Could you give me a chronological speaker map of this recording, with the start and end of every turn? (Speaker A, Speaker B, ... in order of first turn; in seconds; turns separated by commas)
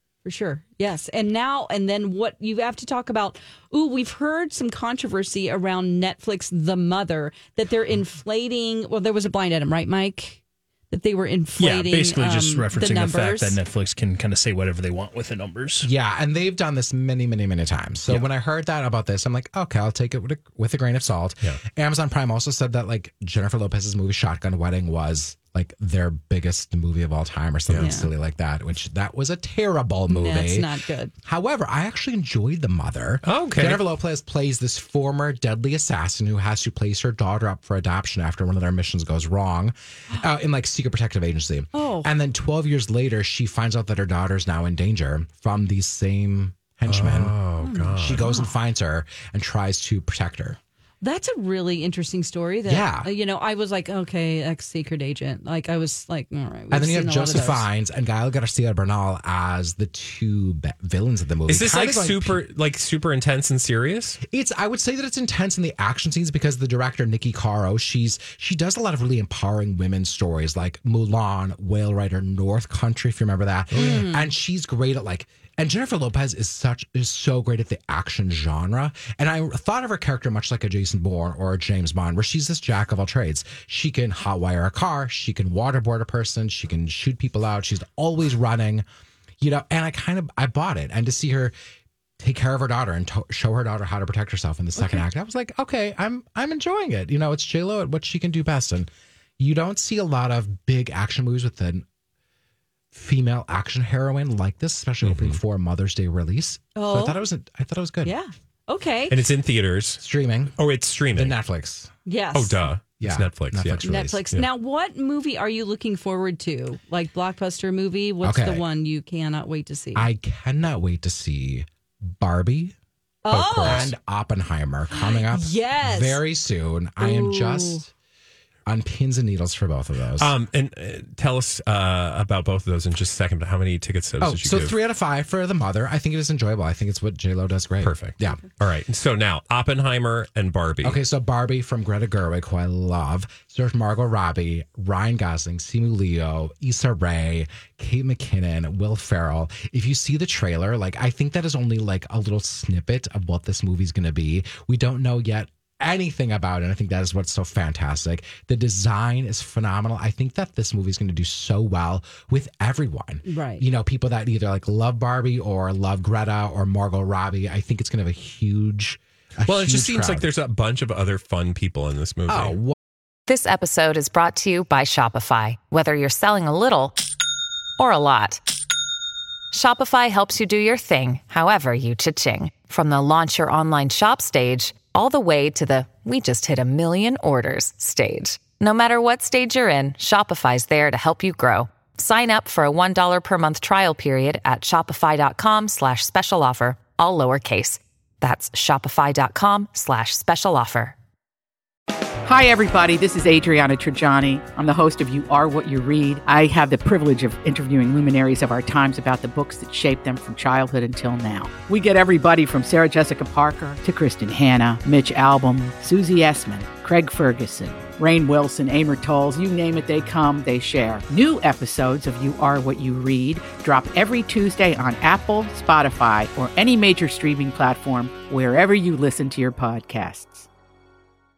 Speaker A: 0.2-13.6, Speaker B: 11.6-15.9, Speaker C: 15.8-30.7, Speaker A: 27.8-28.1, Speaker A: 30.1-31.1, Speaker C: 31.2-47.3, Speaker D: 33.2-33.8, Speaker A: 41.7-42.1, Speaker D: 46.9-48.3, Speaker A: 47.6-48.5, Speaker C: 48.0-50.6, Speaker A: 51.0-57.7, Speaker C: 52.7-53.1, Speaker C: 56.7-62.4, Speaker D: 61.5-64.2, Speaker C: 64.2-88.8, Speaker D: 73.7-74.0, Speaker A: 73.7-74.3, Speaker C: 89.4-91.5, Speaker C: 92.2-101.8, Speaker A: 94.8-95.0, Speaker C: 102.9-108.2, Speaker D: 105.0-105.4, Speaker A: 106.8-107.2, Speaker A: 108.0-109.2, Speaker D: 109.1-110.0, Speaker C: 110.0-110.6, Speaker D: 110.6-111.4, Speaker C: 111.1-111.9, Speaker A: 112.1-112.7, Speaker D: 112.3-114.5, Speaker C: 113.0-114.2, Speaker A: 113.8-120.1, Speaker C: 118.2-118.6, Speaker C: 120.0-122.7, Speaker A: 123.2-123.9, Speaker D: 123.3-123.9, Speaker C: 123.6-127.9, Speaker A: 124.9-126.2, Speaker A: 127.0-127.8, Speaker C: 128.7-130.3, Speaker D: 130.2-134.8, Speaker C: 134.2-138.4, Speaker D: 137.8-141.0, Speaker C: 140.8-170.3, Speaker A: 163.2-163.7, Speaker D: 169.4-172.6, Speaker C: 172.3-172.8, Speaker E: 173.3-177.0, Speaker E: 177.8-178.4, Speaker E: 179.5-200.9, Speaker F: 202.2-230.5